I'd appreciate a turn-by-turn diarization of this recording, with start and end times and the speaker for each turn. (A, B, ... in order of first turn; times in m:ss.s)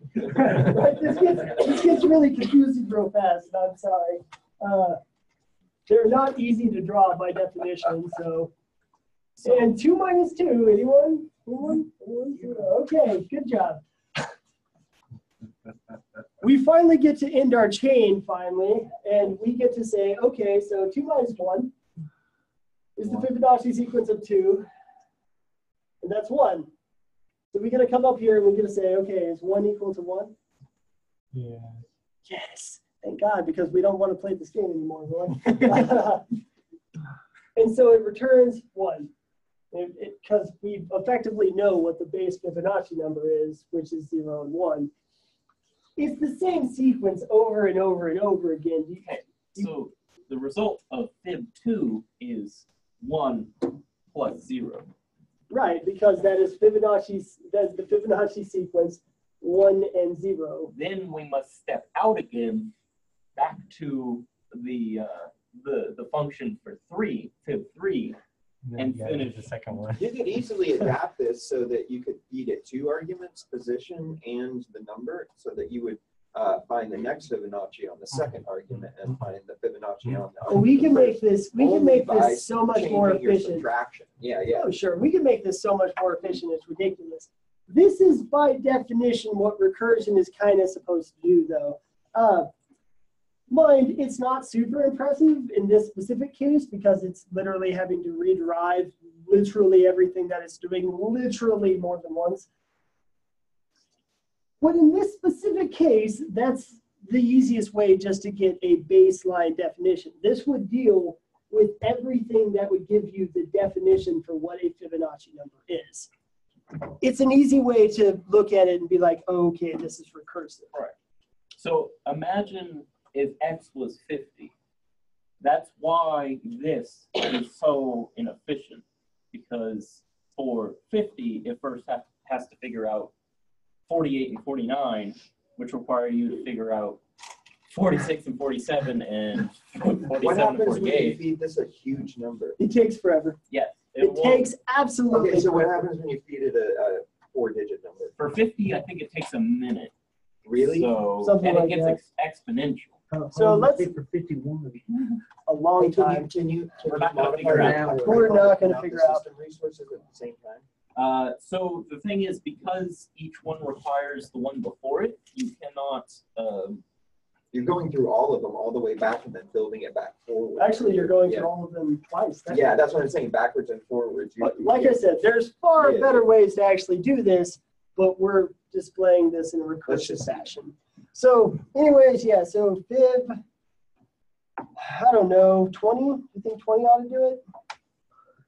0:00.2-0:05.0 A
0:05.9-0:08.5 A
0:09.4-0:13.8 A
0:15.6-0:16.3 B
0:16.4-0:21.7 A
0:23.0-0:24.7 A
0:26.0-0:26.7 A
0:27.5-0:30.3 A
0:31.3-0:31.8 B
0:32.3-0:36.3 A
0:37.6-0:39.1 A
0:39.7-0:44.9 A
0:46.0-0:49.7 A
0:49.0-0:54.9 C
0:55.5-1:00.7 A
1:00.7-1:02.7 C
1:03.4-1:08.2 C
1:08.7-1:10.1 B
1:08.8-1:09.5 C
1:10.0-1:24.7 D
1:20.5-1:23.7 A
1:24.5-1:32.5 A
1:33.5-1:42.5 A
1:44.6-1:56.1 A
1:57.0-2:00.7 A
2:01.6-2:04.5 C
2:05.4-2:13.1 C
2:13.9-2:17.0 C
2:17.7-2:21.2 C
2:20.1-2:22.6 D
2:22.6-2:23.4 A
2:23.5-2:24.5 C
2:24.0-2:25.9 A
2:25.1-2:28.1 D
2:28.2-2:29.9 C
2:30.4-2:30.9 D
2:30.6-2:33.0 C
2:31.2-2:32.0 A
2:33.1-2:35.2 E
2:33.3-2:33.9 A
2:35.5-2:36.3 A
2:35.8-2:40.6 D
2:36.9-2:38.4 C
2:37.5-2:38.0 E
2:38.0-2:39.2 A
2:41.0-2:46.8 C
2:47.5-2:51.5 D
2:50.6-2:52.8 A
2:52.5-2:55.0 D
2:54.4-3:03.4 A
2:55.8-2:56.2 D
2:59.9-3:00.5 D
3:04.8-3:07.4 A